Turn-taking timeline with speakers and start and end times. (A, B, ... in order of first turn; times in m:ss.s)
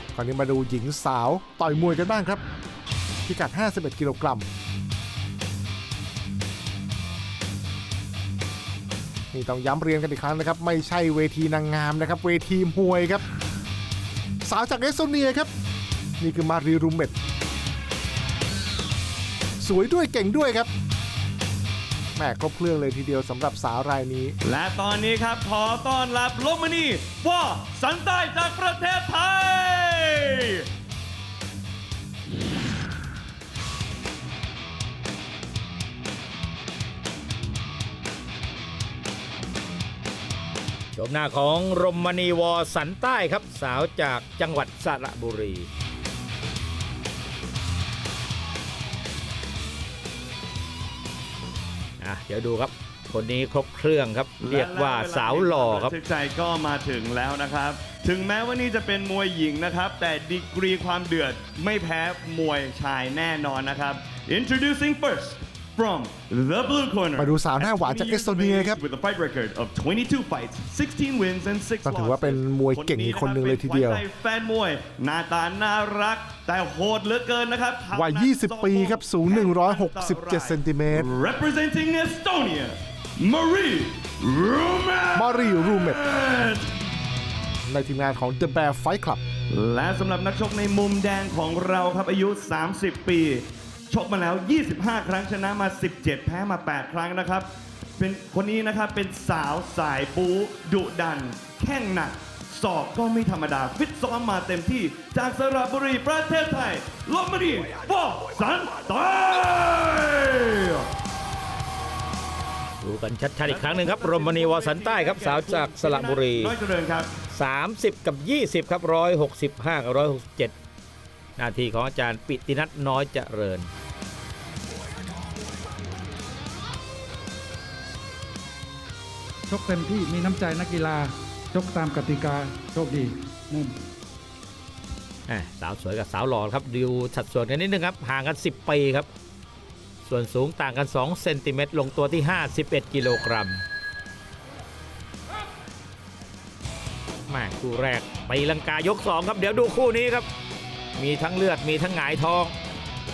0:00.1-0:02.4 A
0:03.2-0:04.4 A
0:09.3-0:13.2 A
0:14.4-0:15.5 A
0:16.2-0:17.1 A
0:19.6-0:20.7 A
0:22.2-0:24.4 A
0:24.4-0:30.7 B
0:41.0-0:45.7 C
0:52.0-0:55.9 C
0:54.4-1:26.7 B
1:07.2-1:08.8 A
1:11.8-1:14.0 A
1:17.9-1:21.1 A
1:25.1-1:26.0 A
1:27.7-1:29.2 A
1:29.5-1:50.9 B
1:52.8-1:56.6 C
1:53.4-1:57.2 B
1:57.3-2:00.5 C
2:01.4-2:03.7 C
2:09.5-2:13.8 D
2:15.3-2:19.1 C
2:20.0-2:23.6 C
2:27.3-2:30.2 C
2:31.0-2:32.5 C